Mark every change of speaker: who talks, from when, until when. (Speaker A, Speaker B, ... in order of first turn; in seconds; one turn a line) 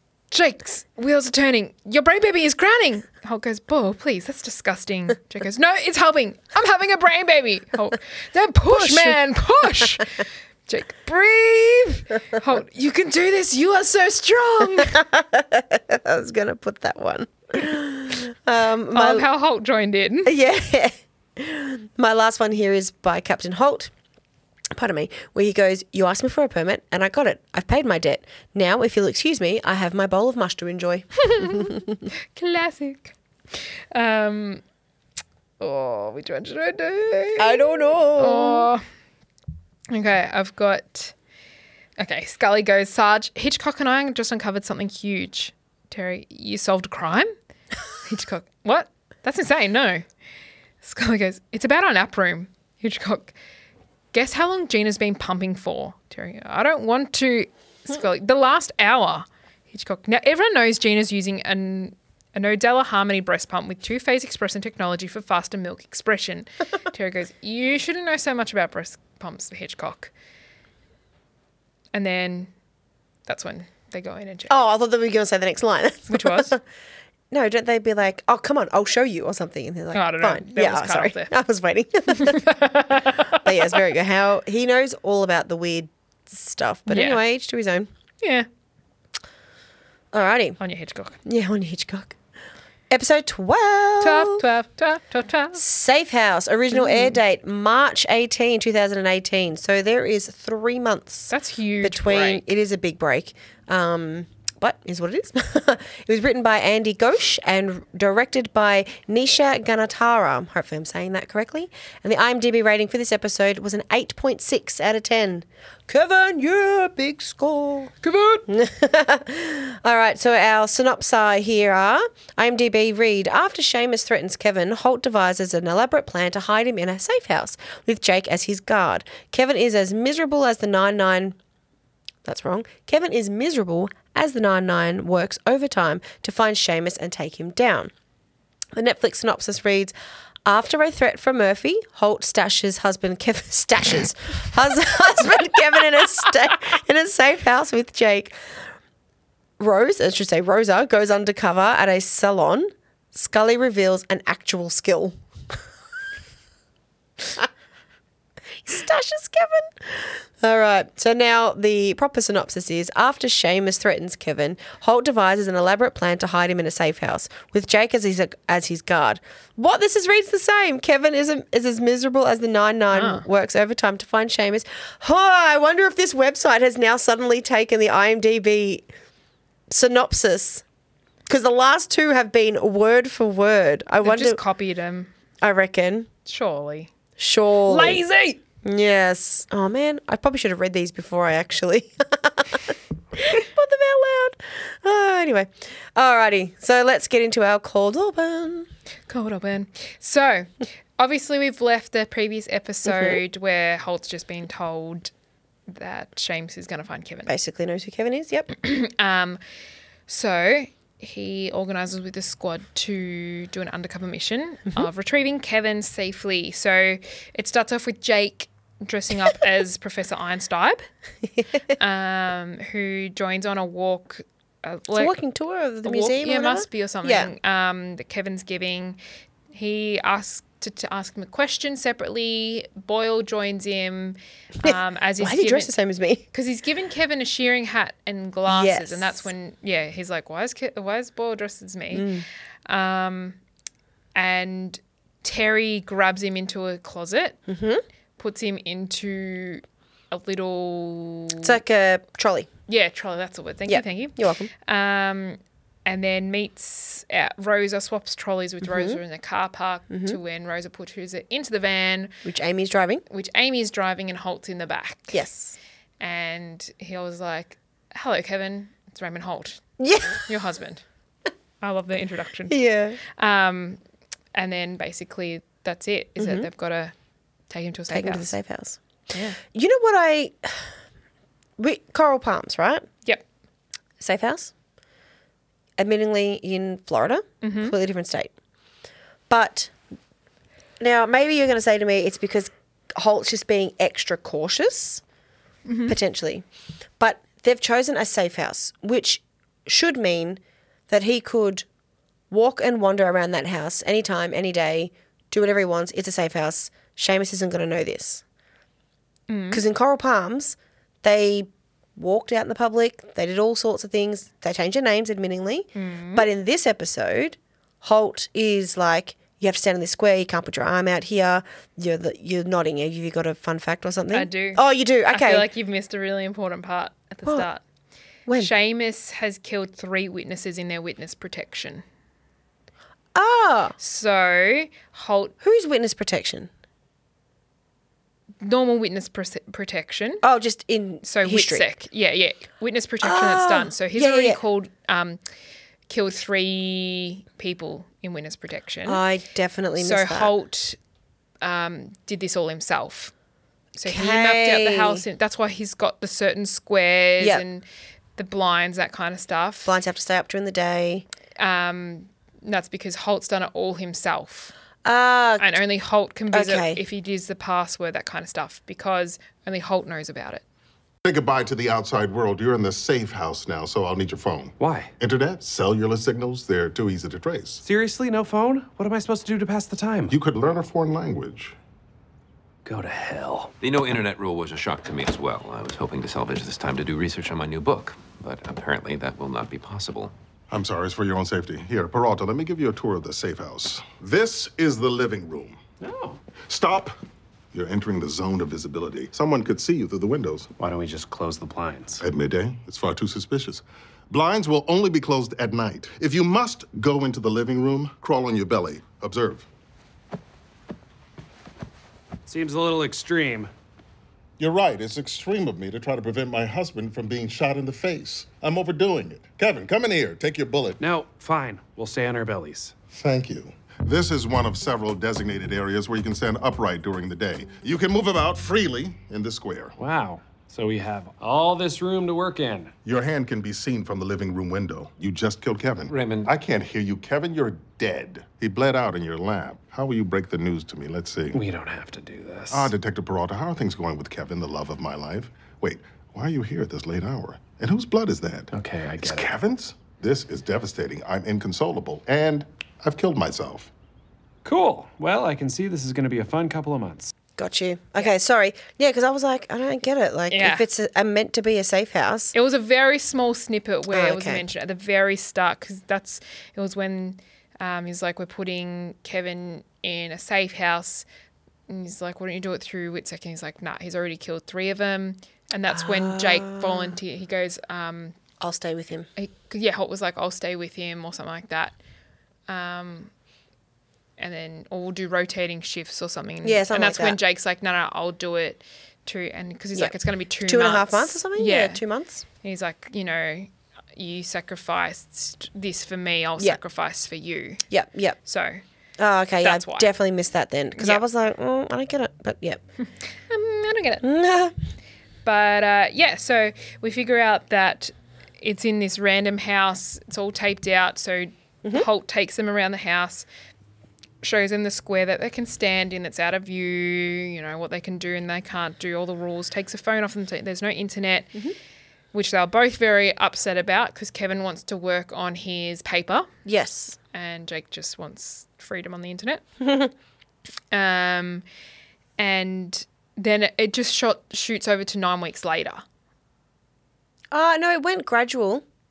Speaker A: 0.3-15.0
Speaker B: 8.7-9.2
Speaker B: 14.6-19.2
Speaker A: 18.9-20.3
Speaker B: 20.2-23.9
Speaker B: 24.7-31.9
Speaker A: 31.2-31.8
Speaker A: 32.3-34.6
Speaker A: 35.6-38.8
Speaker B: 37.4-38.7
Speaker A: 39.9-41.1
Speaker A: 42.0-47.3
Speaker A: 48.0-50.0
Speaker A: 50.8-53.3
Speaker A: 54.1-70.1
Speaker A: 71.9-72.5
Speaker A: 73.3-74.5
Speaker B: 74.5-76.6
Speaker A: 76.1-76.5
Speaker B: 77.3-82.4
Speaker A: 79.9-81.3
Speaker A: 82.1-83.5
Speaker B: 83.3-87.9
Speaker A: 86.9-87.2
Speaker A: 88.2-88.5
Speaker B: 90.1-90.6
Speaker A: 90.6-91.2
Speaker B: 91.2-92.2
Speaker B: 92.9-94.4
Speaker A: 94.0-95.6
Speaker B: 95.5-117.9
Speaker A: 96.7-97.2
Speaker A: 101.3-102.4
Speaker A: 118.0-118.5
Speaker B: 118.5-131.4
Speaker B: 132.2-137.9
Speaker B: 138.7-139.9
Speaker B: 140.4-148.3
Speaker B: 149.6-155.5
Speaker B: 157.2-157.5
Speaker B: 158.6-178.9
Speaker A: 172.9-173.2
Speaker B: 179.7-180.6
Speaker B: 181.3-184.4
Speaker A: 184.0-185.1
Speaker B: 185.4-186.1
Speaker A: 186.2-186.9
Speaker B: 187.2-188.0
Speaker A: 187.7-188.4
Speaker B: 188.6-198.7
Speaker A: 199.1-205.1
Speaker B: 202.8-203.2
Speaker A: 205.7-207.3
Speaker B: 207.3-208.5
Speaker A: 208.5-209.4
Speaker A: 210.1-220.8
Speaker A: 221.8-225.1
Speaker B: 224.9-227.3
Speaker A: 225.8-229.0
Speaker A: 229.5-235.7
Speaker B: 234.6-236.2
Speaker A: 236.3-242.1
Speaker B: 238.5-239.3
Speaker B: 241.9-242.2
Speaker A: 242.7-243.4
Speaker A: 244.1-247.4
Speaker B: 247.5-247.8
Speaker A: 248.2-251.6
Speaker B: 251.4-252.5
Speaker A: 252.7-262.1
Speaker B: 253.7-254.5
Speaker B: 258.6-259.0
Speaker B: 259.9-260.2
Speaker B: 262.2-263.0
Speaker A: 263.1-265.2
Speaker B: 265.1-265.6
Speaker A: 266.0-270.8
Speaker B: 269.8-270.3
Speaker A: 271.6-272.6
Speaker B: 272.5-273.0
Speaker A: 273.1-273.8
Speaker A: 274.3-276.9
Speaker B: 276.2-276.5
Speaker A: 277.5-278.4
Speaker B: 277.9-278.8
Speaker A: 279.1-279.4
Speaker B: 279.4-280.6
Speaker B: 281.6-282.9
Speaker B: 284.0-284.5
Speaker B: 285.8-288.3
Speaker A: 287.4-287.7
Speaker B: 289.3-289.7
Speaker B: 290.8-295.0
Speaker A: 295.6-295.9
Speaker B: 295.9-296.4
Speaker B: 297.0-301.6
Speaker B: 302.3-308.2
Speaker A: 309.3-309.6
Speaker B: 309.5-325.5
Speaker A: 315.7-316.2
Speaker A: 324.1-327.6
Speaker B: 328.2-328.5
Speaker A: 328.4-331.8
Speaker B: 333.1-333.8
Speaker A: 333.8-335.3
Speaker B: 335.4-336.5
Speaker A: 338.4-340.2
Speaker B: 340.2-341.7
Speaker A: 341.0-345.2
Speaker B: 343.0-344.4
Speaker A: 345.9-349.0
Speaker B: 348.9-350.3
Speaker A: 349.8-350.8
Speaker A: 351.4-353.1
Speaker A: 353.8-357.6
Speaker B: 353.8-355.0
Speaker A: 358.2-359.8
Speaker B: 359.6-361.1
Speaker A: 361.4-364.5
Speaker B: 364.8-365.5
Speaker A: 365.4-370.4
Speaker B: 366.3-366.8
Speaker C: 371.0-377.6
Speaker D: 374.6-374.9
Speaker D: 377.6-380.1
Speaker C: 380.1-381.6
Speaker D: 382.6-383.5
Speaker E: 383.6-390.1
Speaker C: 390.5-395.6
Speaker D: 395.8-396.2
Speaker C: 396.4-396.9
Speaker C: 397.5-400.5
Speaker D: 400.6-402.0
Speaker C: 402.0-409.5
Speaker D: 412.2-413.5
Speaker C: 414.4-420.8
Speaker D: 420.8-422.7
Speaker C: 422.9-429.8
Speaker D: 429.8-432.7
Speaker C: 432.8-441.4
Speaker E: 435.9-436.3
Speaker D: 441.3-442.7
Speaker C: 442.5-453.7
Speaker D: 448.5-449.3
Speaker D: 454.4-457.1
Speaker B: 457.4-462.3
Speaker A: 460.3-460.6
Speaker A: 462.3-471.0
Speaker B: 463.9-464.4
Speaker A: 471.7-478.1
Speaker B: 475.7-477.0
Speaker B: 478.4-479.1
Speaker A: 479.2-481.7
Speaker A: 482.5-483.1
Speaker A: 484.2-491.8
Speaker B: 486.4-487.2
Speaker B: 489.7-492.2
Speaker A: 492.4-497.6
Speaker B: 497.7-498.2
Speaker A: 498.2-498.6
Speaker B: 499.0-502.6
Speaker A: 499.4-499.9
Speaker A: 500.8-501.0
Speaker A: 503.3-504.1
Speaker B: 504.0-504.5
Speaker A: 505.2-513.2
Speaker A: 514.2-521.4
Speaker A: 522.1-526.3
Speaker B: 526.4-527.0
Speaker A: 527.1-529.4
Speaker B: 529.6-529.9
Speaker A: 530.7-531.4
Speaker A: 532.2-535.8
Speaker B: 537.3-538.6